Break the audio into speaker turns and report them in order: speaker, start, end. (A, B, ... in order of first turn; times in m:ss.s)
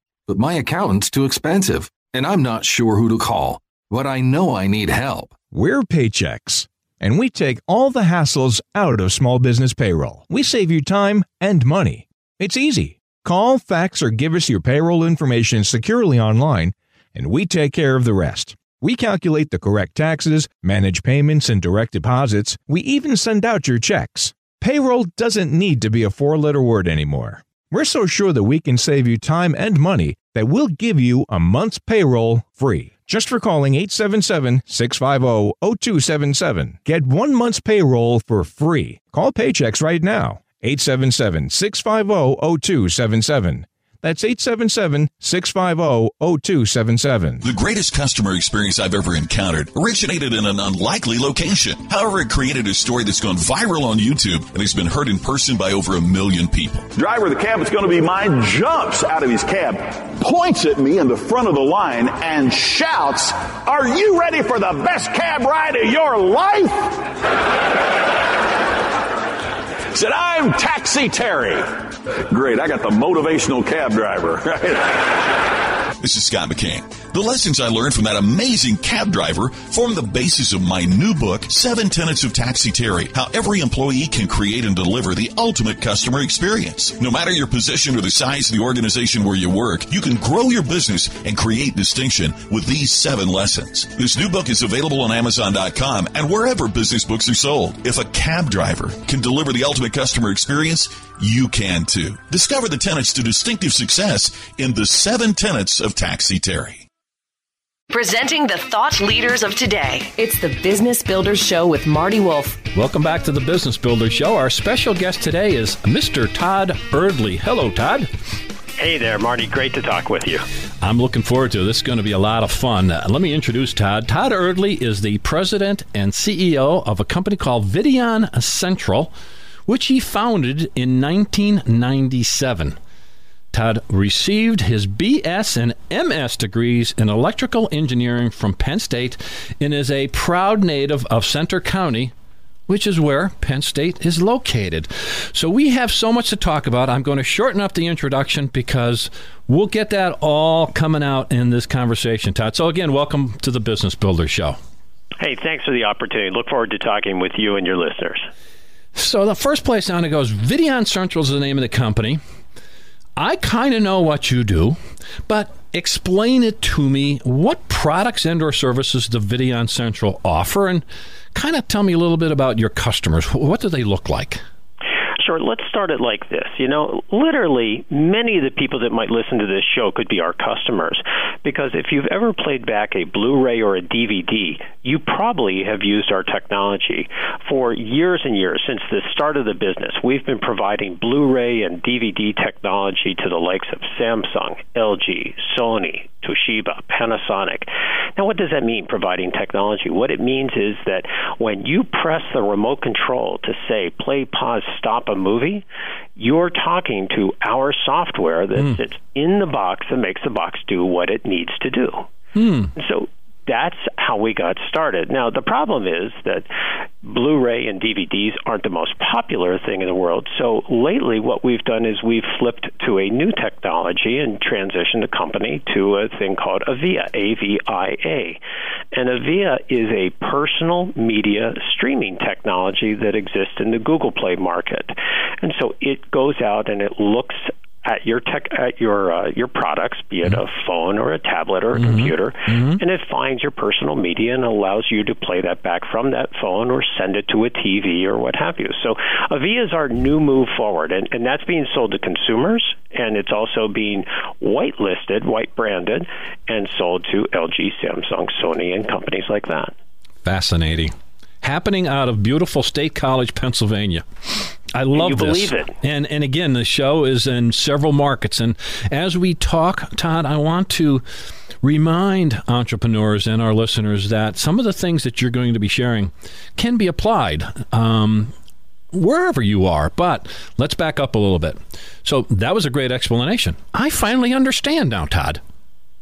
0:00.3-0:05.4 A
0:05.5-0:47.4 B
0:47.4-0:56.9 C
0:57.0-1:07.0 D
1:09.9-1:11.7 D
1:12.3-1:15.1 D
1:16.0-1:46.9 C
1:47.9-1:52.6 E
1:52.7-1:58.1 F
1:58.8-2:00.4 G
2:00.8-2:09.1 F
2:09.7-2:12.8 F
2:13.5-2:22.1 F
2:22.7-2:34.6 F
2:35.2-2:38.3 G
2:39.0-2:42.2 F
2:43.2-2:54.4 F
2:55.2-3:25.6 G
3:26.2-3:32.1 G
3:32.4-3:32.7 F
3:32.8-3:36.5 G
3:37.0-3:48.4 G
3:48.9-4:19.7 G
4:01.8-4:02.8 F
4:20.2-4:31.0 F
4:24.9-4:25.7 G
4:31.6-4:38.3 F
4:38.9-4:45.4 F